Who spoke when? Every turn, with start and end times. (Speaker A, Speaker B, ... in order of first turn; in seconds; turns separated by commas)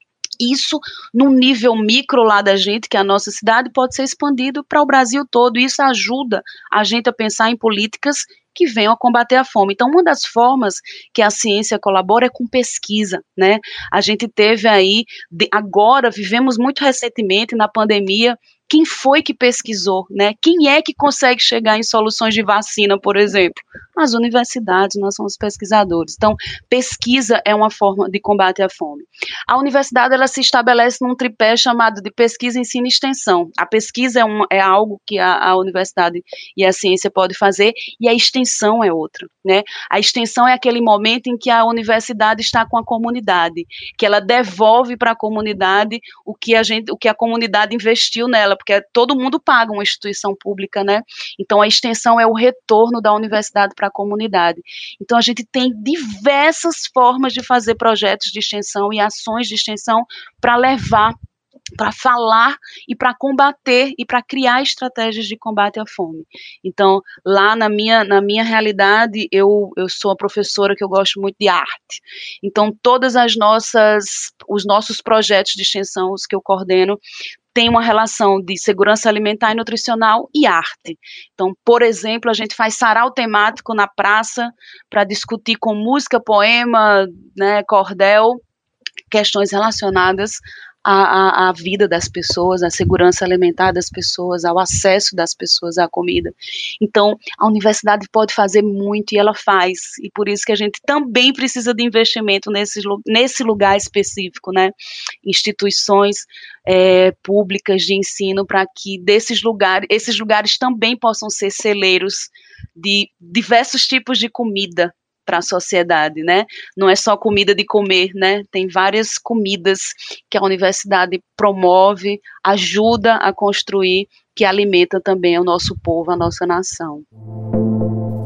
Speaker A: 0.4-61.1, Speaker A: 61.8-77.0, Speaker A: 77.5-88.4, Speaker A: 89.1-127.0